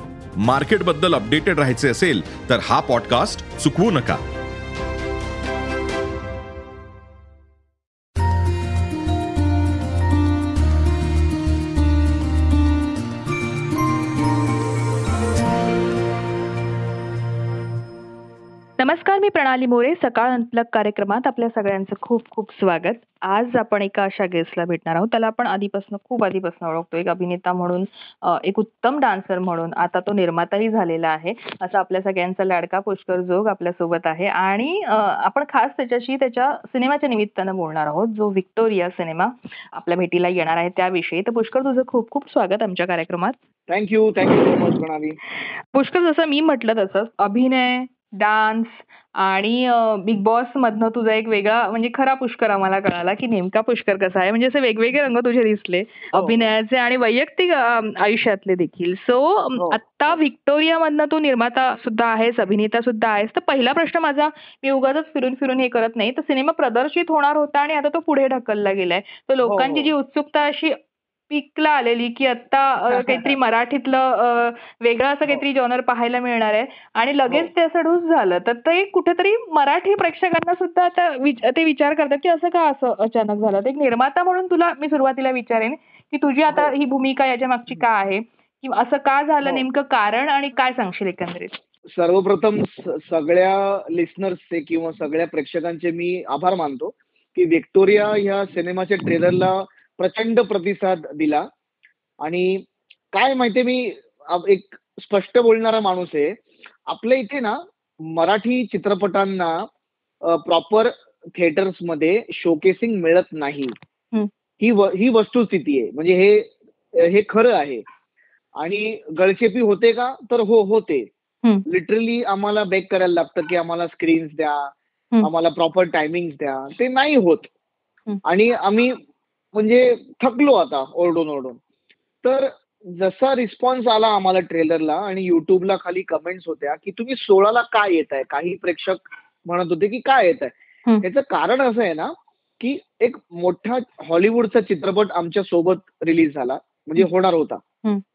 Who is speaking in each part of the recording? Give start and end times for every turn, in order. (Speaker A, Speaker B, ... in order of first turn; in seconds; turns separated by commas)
Speaker A: 0.4-4.2, Speaker B: 18.8-43.3, Speaker C: 43.7-45.2, Speaker B: 44.2-44.6, Speaker B: 45.7-70.7, Speaker C: 56.1-56.5, Speaker C: 59.6-60.2, Speaker C: 69.4-69.9, Speaker B: 71.3-91.5, Speaker C: 72.9-73.4, Speaker C: 86.5-86.7, Speaker C: 91.9-101.4, Speaker C: 102.2-109.7, Speaker C: 110.2-113.7, Speaker C: 114.6-117.8, Speaker C: 118.6-121.1, Speaker C: 121.7-127.5, Speaker C: 128.2-128.9, Speaker C: 129.5-131.6, Speaker C: 132.2-147.6